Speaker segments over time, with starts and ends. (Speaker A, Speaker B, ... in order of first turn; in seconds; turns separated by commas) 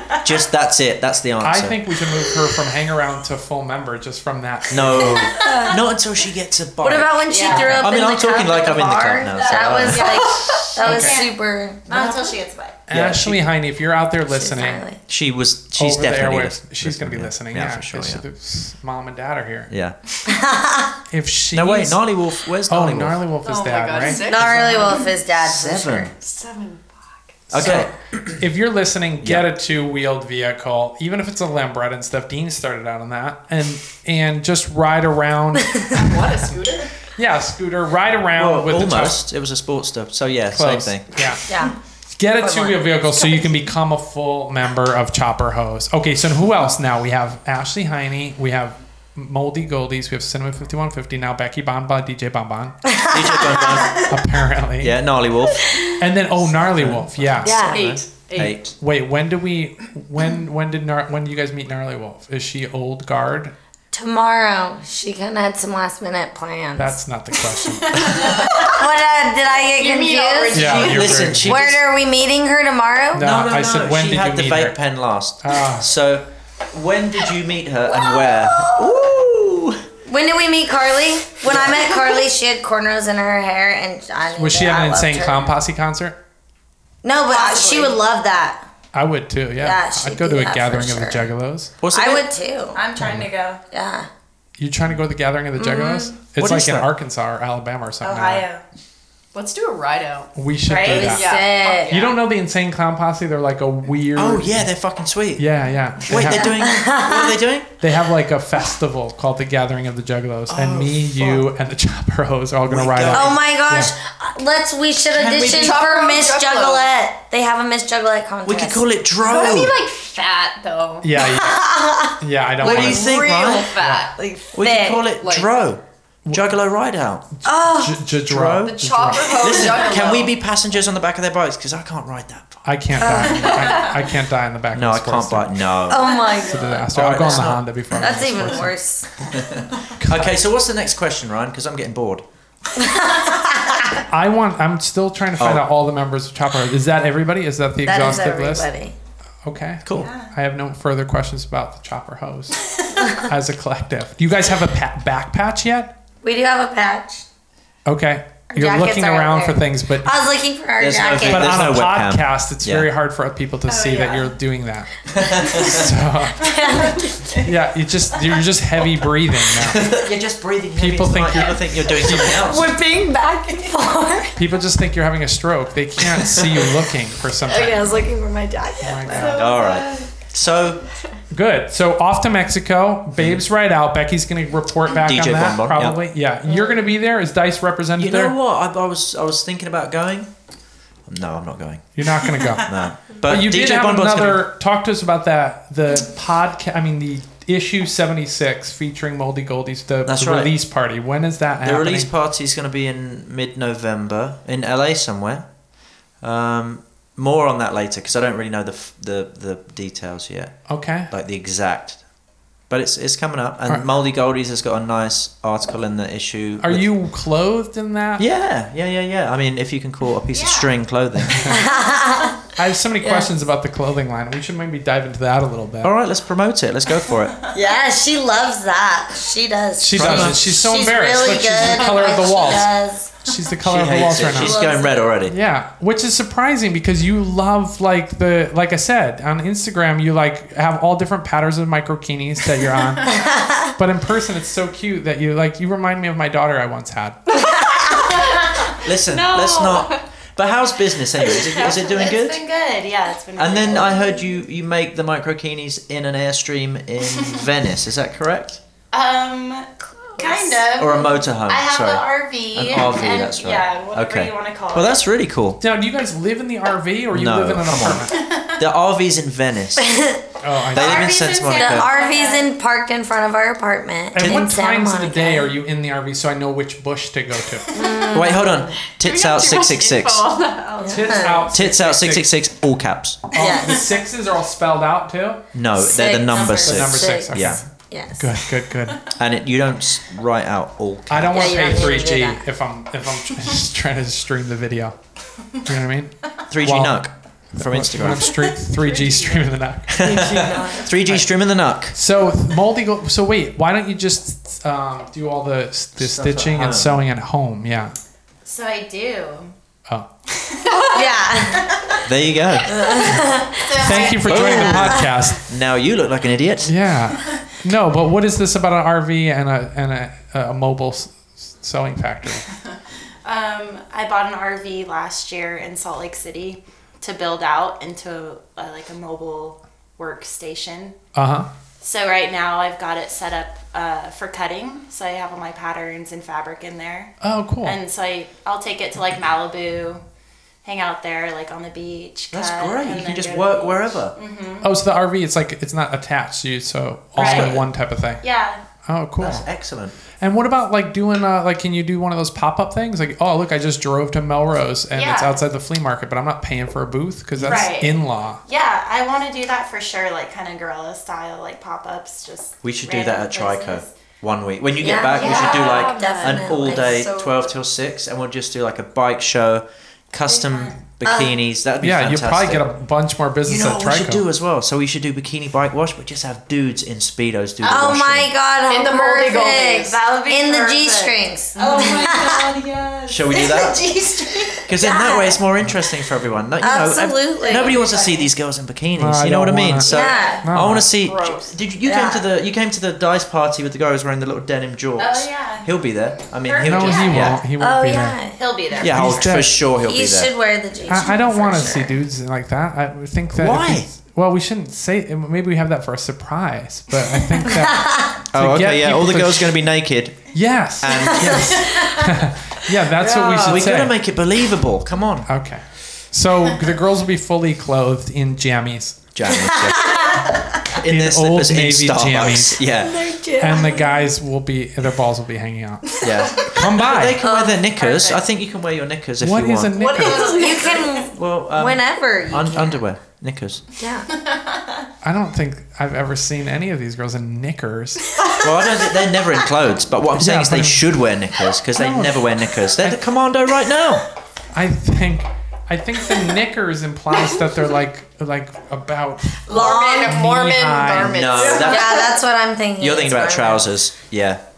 Speaker A: 0.2-1.8, Speaker B: 1.4-5.3, Speaker A: 4.7-10.2, Speaker C: 5.3-5.8, Speaker C: 6.8-12.3, Speaker D: 7.3-7.7, Speaker B: 7.5-7.8, Speaker D: 9.3-12.8, Speaker B: 10.8-11.2, Speaker B: 12.9-14.8, Speaker A: 12.9-13.4, Speaker C: 14.3-15.0, Speaker A: 15.1-18.2, Speaker B: 15.8-19.7, Speaker A: 19.7-20.0, Speaker C: 20.3-20.9, Speaker B: 21.1-22.0, Speaker A: 21.5-23.2, Speaker B: 22.7-24.4, Speaker E: 23.4-25.1, Speaker C: 24.1-26.1, Speaker A: 25.4-26.1, Speaker E: 26.2-27.0, Speaker A: 27.5-28.4, Speaker B: 27.5-36.5, Speaker A: 29.2-29.5, Speaker E: 35.9-36.9, Speaker B: 37.1-39.2, Speaker A: 38.4-41.3, Speaker B: 40.5-41.4, Speaker C: 41.5-41.8, Speaker B: 42.1-52.8, Speaker C: 42.4-43.5, Speaker C: 52.9-54.0, Speaker A: 53.1-54.1, Speaker B: 54.1-55.0, Speaker A: 54.8-55.9, Speaker C: 55.6-56.0, Speaker B: 56.0-57.7, Speaker A: 56.5-58.8, Speaker C: 57.4-57.9, Speaker E: 57.7-58.6, Speaker B: 58.4-63.5, Speaker C: 63.9-67.0, Speaker B: 66.8-68.3, Speaker C: 68.1-73.3, Speaker E: 69.5-71.3, Speaker B: 70.5-71.7, Speaker A: 70.6-71.8, Speaker B: 73.1-74.8, Speaker A: 73.2-79.8, Speaker B: 75.4-75.9, Speaker C: 80.1-85.5, Speaker A: 81.4-82.0, Speaker B: 84.3-86.2, Speaker C: 87.0-88.6, Speaker D: 87.3-88.0, Speaker B: 88.9-91.7, Speaker C: 89.6-91.3, Speaker A: 91.8-92.3, Speaker C: 91.9-92.8, Speaker D: 92.7-93.6, Speaker B: 93.0-93.3, Speaker C: 93.7-94.1, Speaker B: 94.6-98.5, Speaker C: 95.6-96.2, Speaker A: 96.4-96.9, Speaker D: 98.0-98.6, Speaker E: 99.3-100.3, Speaker B: 100.3-101.3, Speaker D: 100.7-101.9, Speaker C: 100.9-102.0, Speaker E: 101.0-102.2, Speaker B: 101.9-104.7, Speaker A: 104.2-105.5, Speaker B: 105.4-106.5, Speaker A: 106.0-107.7, Speaker C: 106.2-107.4, Speaker B: 107.8-113.9, Speaker A: 110.5-111.5, Speaker A: 112.7-113.4, Speaker C: 113.1-118.8, Speaker A: 115.1-115.8, Speaker E: 115.3-116.9, Speaker A: 118.5-119.8, Speaker E: 119.2-121.0, Speaker B: 121.0-123.1, Speaker C: 121.2-122.2, Speaker A: 122.6-123.8, Speaker E: 122.6-124.3, Speaker B: 123.8-124.1, Speaker C: 124.5-125.1, Speaker A: 124.5-127.3, Speaker E: 125.2-125.5, Speaker B: 126.3-126.5, Speaker B: 127.4-129.6, Speaker C: 127.5-128.0, Speaker A: 128.3-133.5, Speaker E: 128.6-130.3, Speaker B: 132.7-135.6, Speaker C: 133.0-133.8, Speaker A: 134.7-136.3, Speaker C: 135.9-139.1, Speaker B: 136.4-138.8, Speaker A: 136.9-138.4, Speaker A: 139.3-142.2, Speaker B: 140.0-140.4, Speaker C: 142.8-144.0, Speaker B: 144.1-148.7, Speaker A: 145.4-145.7, Speaker C: 147.8-148.9, Speaker B: 149.4-155.9, Speaker A: 149.8-150.1, Speaker D: 150.0-150.3, Speaker C: 153.0-153.2, Speaker C: 156.2-157.2, Speaker B: 157.9-160.2, Speaker C: 158.5-161.6, Speaker A: 160.8-162.9, Speaker B: 161.2-164.9, Speaker D: 163.7-164.3, Speaker A: 165.1-165.9, Speaker B: 165.5-166.5, Speaker C: 166.4-167.4, Speaker B: 167.4-169.9, Speaker A: 169.6-172.8, Speaker B: 170.8-172.5, Speaker C: 172.3-174.4, Speaker B: 174.4-178.0, Speaker A: 176.1-176.6, Speaker C: 177.5-180.1, Speaker B: 178.8-179.5, Speaker A: 179.3-180.8, Speaker B: 181.3-188.4, Speaker A: 183.2-183.4, Speaker A: 184.9-186.0, Speaker A: 188.0-190.3, Speaker A: 191.1-194.5, Speaker B: 192.0-202.1, Speaker A: 200.1-200.5, Speaker A: 201.6-205.5, Speaker A: 206.2-210.6, Speaker B: 210.7-211.1, Speaker A: 211.1-212.0, Speaker A: 212.7-216.9, Speaker B: 216.6-218.3, Speaker A: 218.2-221.6, Speaker D: 220.3-220.7, Speaker B: 221.3-221.6, Speaker C: 221.5-222.4, Speaker B: 222.6-225.9, Speaker C: 223.0-223.3, Speaker A: 225.8-227.4, Speaker C: 227.5-233.2, Speaker B: 229.8-234.6, Speaker A: 229.9-230.6, Speaker A: 233.6-235.3, Speaker C: 234.2-235.0, Speaker B: 235.3-247.2, Speaker C: 243.1-243.7, Speaker C: 247.5-248.3, Speaker A: 248.8-252.4, Speaker D: 249.1-250.0, Speaker D: 251.2-254.2, Speaker A: 253.4-258.6, Speaker D: 258.9-265.0, Speaker C: 260.2-260.6, Speaker A: 260.8-265.6, Speaker B: 265.6-268.1, Speaker A: 267.1-270.0, Speaker D: 268.1-268.6, Speaker C: 269.8-270.2, Speaker B: 270.4-271.1, Speaker D: 270.7-272.5, Speaker A: 270.7-271.9, Speaker C: 271.5-275.5, Speaker B: 274.1-277.7, Speaker C: 277.7-278.8, Speaker A: 278.1-280.3, Speaker E: 279.0-280.8, Speaker D: 280.6-281.2, Speaker C: 280.8-281.5, Speaker B: 280.8-282.3, Speaker A: 281.5-283.3, Speaker B: 283.3-285.4, Speaker C: 283.4-283.9, Speaker A: 285.5-287.6, Speaker C: 285.8-288.4, Speaker D: 286.3-286.7, Speaker B: 286.6-287.7, Speaker B: 288.2-289.1, Speaker A: 289.1-291.8, Speaker B: 291.1-295.0, Speaker C: 291.3-292.4, Speaker B: 295.6-300.3, Speaker A: 296.5-298.4, Speaker D: 298.6-299.5, Speaker A: 299.9-301.9, Speaker C: 300.0-300.9, Speaker B: 301.0-301.3, Speaker B: 301.9-308.0, Speaker A: 306.0-307.0, Speaker D: 308.4-309.5, Speaker D: 310.4-311.1, Speaker C: 310.7-311.8, Speaker D: 311.7-312.0, Speaker A: 312.0-313.1, Speaker C: 312.7-315.1, Speaker D: 312.8-314.7, Speaker B: 313.8-315.4, Speaker A: 314.2-316.7, Speaker B: 316.6-322.5, Speaker D: 323.2-331.0, Speaker B: 331.1-331.5, Speaker D: 331.8-340.0, Speaker B: 337.2-337.8, Speaker D: 340.6-344.7, Speaker A: 342.3-344.1, Speaker B: 344.6-348.2, Speaker D: 347.2-347.6, Speaker A: 347.2-347.7, Speaker D: 348.2-348.6, Speaker B: 348.9-349.4, Speaker A: 349.2-349.9, Speaker B: 350.2-358.4, Speaker D: 354.9-355.4, Speaker A: 357.4-357.7, Speaker D: 357.4-363.9, Speaker A: 362.6-372.6, Speaker C: 364.8-367.4, Speaker D: 365.1-367.2, Speaker D: 370.3-370.8, Speaker C: 371.0-371.3, Speaker B: 371.8-374.3, Speaker A: 373.4-378.3, Speaker C: 377.6-382.5, Speaker E: 378.7-380.0, Speaker D: 379.8-385.2, Speaker E: 381.6-382.3, Speaker A: 383.1-383.9, Speaker A: 384.7-397.4, Speaker C: 384.8-385.3, Speaker C: 386.6-387.9, Speaker D: 387.4-388.3, Speaker B: 389.0-390.9, Speaker C: 389.9-390.5, Speaker E: 390.9-391.6, Speaker C: 391.9-392.2, Speaker D: 395.0-395.7, Speaker D: 396.4-397.4, Speaker B: 396.6-398.2, Speaker C: 397.5-398.4, Speaker D: 398.4-399.4, Speaker A: 398.8-400.3, Speaker B: 398.8-399.6, Speaker C: 399.7-402.0, Speaker B: 400.9-409.6, Speaker A: 403.4-403.9, Speaker C: 407.5-408.2, Speaker A: 408.3-410.3, Speaker B: 410.3-414.0, Speaker A: 410.8-411.7, Speaker C: 411.1-412.2, Speaker C: 413.0-413.7, Speaker A: 413.4-415.3, Speaker B: 415.3-419.1, Speaker A: 419.1-423.1, Speaker C: 419.3-420.6, Speaker B: 420.7-422.6, Speaker C: 422.8-424.0, Speaker B: 423.4-427.2, Speaker A: 426.0-429.8, Speaker C: 427.2-427.9, Speaker D: 427.8-428.2, Speaker B: 429.2-430.5, Speaker E: 429.8-431.0, Speaker D: 429.8-431.0, Speaker C: 430.1-432.8, Speaker A: 431.1-433.6, Speaker C: 433.8-434.1, Speaker B: 435.0-438.1, Speaker A: 438.4-444.1, Speaker B: 440.2-440.9, Speaker B: 441.8-443.0, Speaker B: 444.5-451.3, Speaker C: 449.5-450.2, Speaker E: 449.5-452.0, Speaker A: 451.0-452.1, Speaker C: 451.4-453.6, Speaker A: 452.8-454.4